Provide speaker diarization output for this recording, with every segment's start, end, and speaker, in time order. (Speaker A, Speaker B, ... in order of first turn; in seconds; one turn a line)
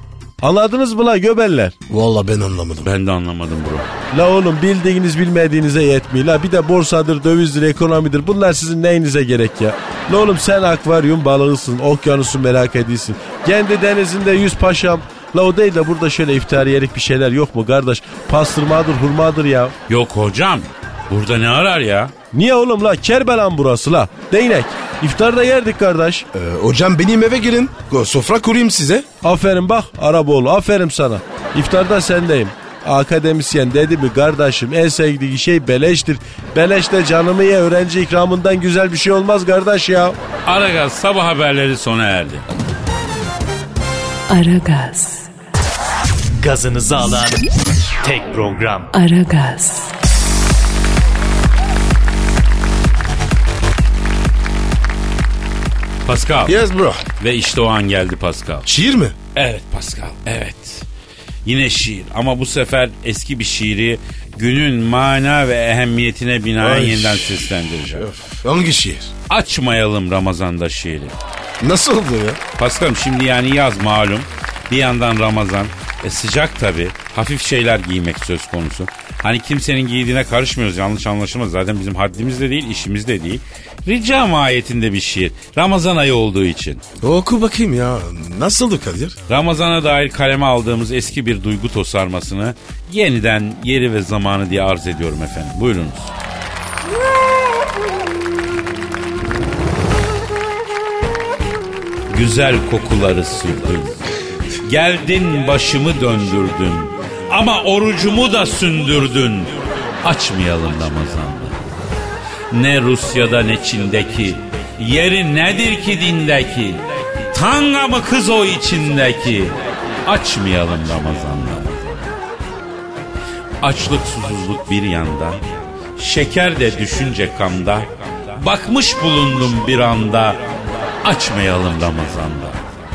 Speaker A: 0.4-1.7
Speaker B: 1.9-2.9
Speaker C: 2.8-3.9
Speaker A: 4.1-19.7
Speaker C: 19.9-22.1
Speaker A: 22.3-26.3
Speaker B: 26.3-29.1
Speaker A: 29.2-40.2
Speaker C: 40.5-42.4
Speaker D: 44.3-45.3
Speaker E: 46.4-47.4
Speaker E: 48.0-48.9
Speaker D: 48.9-49.9
Speaker C: 56.0-56.6
Speaker B: 56.5-57.0
Speaker C: 57.2-58.7
Speaker B: 58.6-59.1
Speaker C: 59.3-60.9
Speaker C: 61.4-68.0
Speaker B: 66.6-67.4
Speaker B: 67.9-69.1
Speaker C: 69.3-71.2
Speaker B: 71.6-72.4
Speaker C: 72.6-86.8
Speaker B: 87.0-89.2
Speaker C: 89.3-96.1
Speaker C: 102.1-104.0
Speaker C: 104.6-111.6
Speaker C: 112.5-122.2
Speaker C: 123.6-125.4
Speaker C: 126.0-132.7